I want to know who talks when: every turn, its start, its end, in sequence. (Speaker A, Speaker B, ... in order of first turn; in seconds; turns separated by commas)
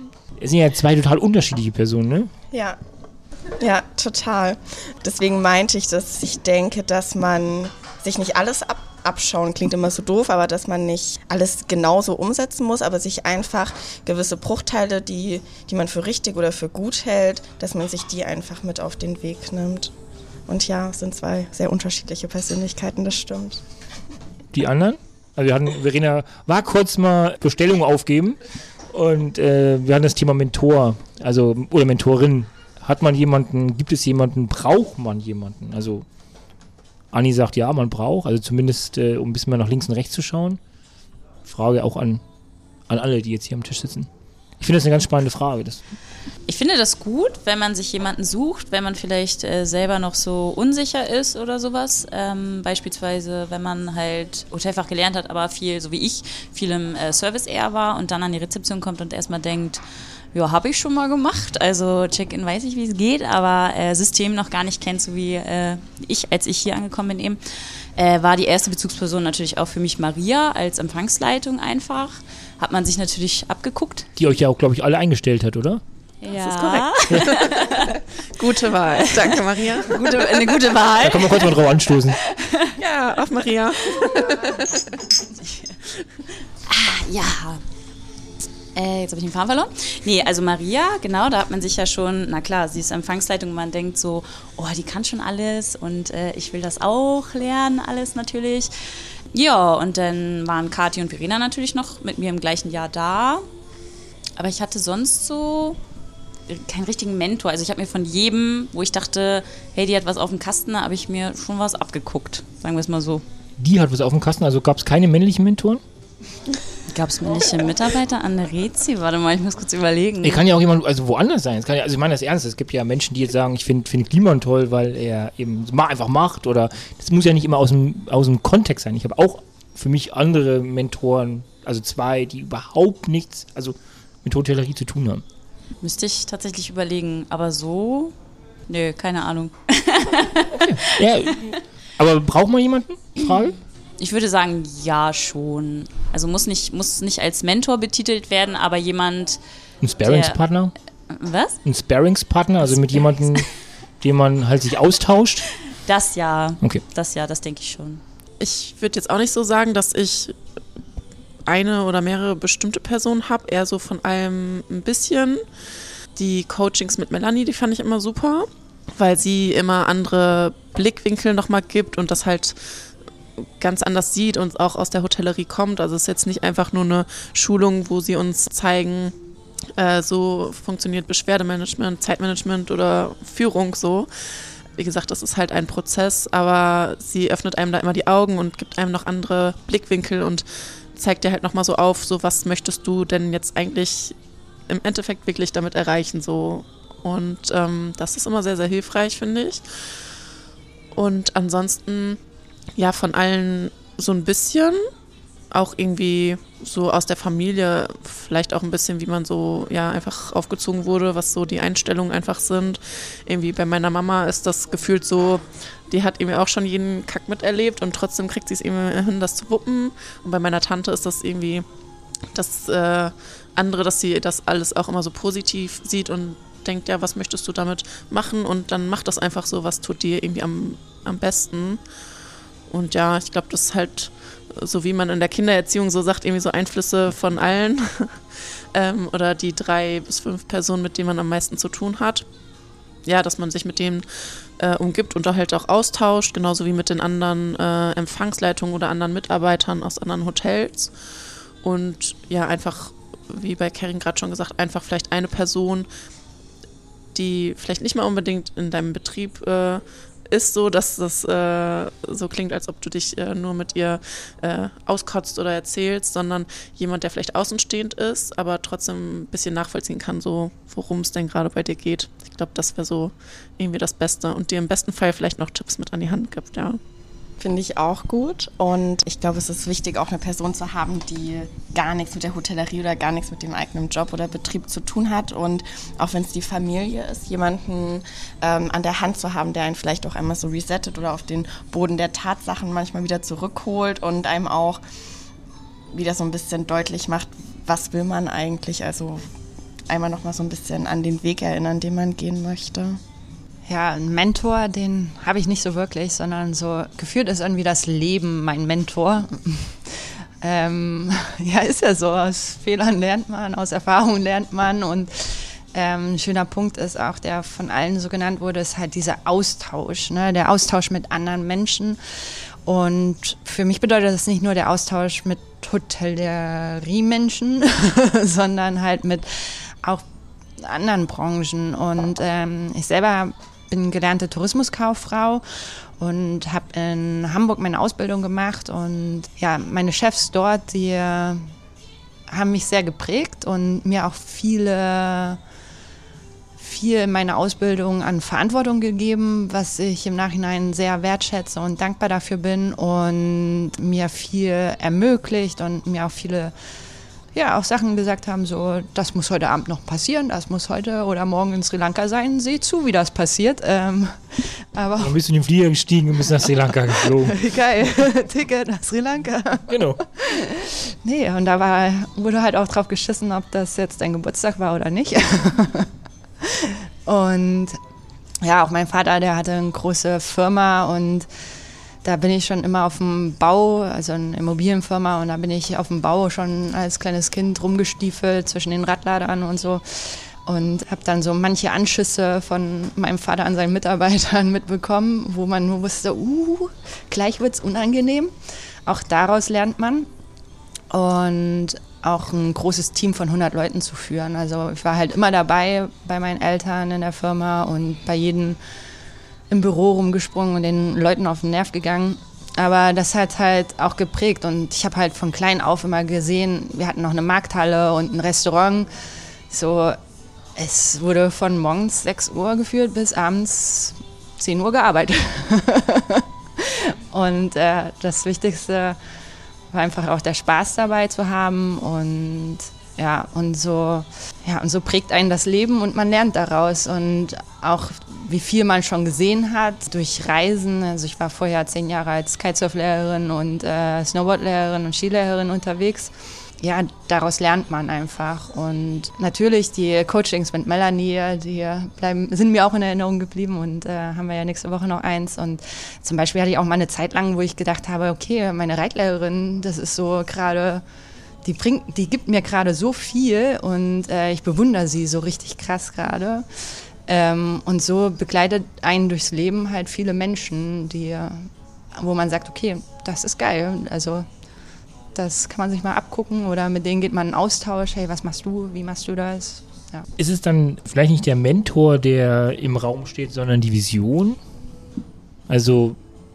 Speaker A: 0.4-2.3, Speaker B: 2.5-2.8, Speaker B: 3.6-19.9, Speaker B: 20.5-23.6, Speaker A: 24.5-28.4, Speaker A: 28.9-36.0, Speaker A: 37.1-40.6, Speaker A: 41.4-42.2, Speaker A: 42.9-44.1, Speaker A: 44.6-45.8, Speaker C: 46.5-59.8, Speaker C: 60.3-74.1, Speaker A: 74.2-75.8, Speaker C: 76.2-78.0, Speaker D: 76.2-80.7, Speaker C: 79.0-81.6, Speaker A: 81.0-82.2, Speaker C: 82.1-82.8, Speaker D: 82.8-85.0, Speaker C: 83.9-84.3, Speaker C: 85.4-85.7, Speaker C: 86.7-87.6, Speaker C: 88.7-98.7, Speaker C: 99.3-103.4, Speaker C: 104.4-105.8, Speaker C: 106.5-113.2, Speaker A: 113.6-115.8, Speaker C: 116.9-120.4, Speaker A: 120.2-135.2, Speaker C: 135.8-138.1, Speaker C: 138.7-141.6, Speaker A: 140.5-143.6, Speaker C: 144.0-149.4, Speaker A: 149.8-150.7, Speaker C: 150.0-150.4, Speaker C: 151.1-151.6, Speaker A: 151.6-153.5, Speaker C: 152.7-153.5, Speaker A: 154.0-155.5, Speaker C: 155.9-158.0, Speaker D: 158.4-160.3, Speaker D: 161.5-165.4, Speaker D: 166.2-172.8, Speaker D: 173.6-179.1, Speaker D: 179.8-184.1, Speaker D: 184.8-194.1, Speaker D: 194.7-199.9, Speaker D: 200.9-202.2, Speaker D: 202.8-204.8, Speaker D: 205.5-221.6, Speaker D: 222.3-231.8, Speaker D: 232.7-242.2, Speaker D: 243.1-250.9, Speaker D: 251.6-255.9, Speaker D: 257.1-276.8, Speaker B: 277.4-294.8, Speaker B: 295.9-299.2, Speaker B: 299.9-303.0, Speaker E: 303.7-322.0, Speaker E: 322.6-330.0, Speaker E: 330.6-341.5, Speaker E: 342.3-345.4, Speaker E: 346.6-356.5, Speaker E: 357.3-365.1, Speaker A: 365.0-367.4, Speaker E: 367.2-375.9, Speaker A: 369.7-370.0, Speaker E: 376.4-377.8, Speaker E: 378.4-381.3, Speaker E: 382.0-398.3, Speaker E: 398.9-400.1, Speaker E: 400.9-408.6, Speaker E: 409.5-418.9, Speaker E: 419.5-420.0, Speaker E: 420.6-429.0, Speaker E: 429.7-460.8, Speaker E: 461.4-466.4, Speaker E: 467.1-474.2, Speaker E: 475.1-480.1, Speaker A: 480.2-484.4, Speaker A: 485.5-486.0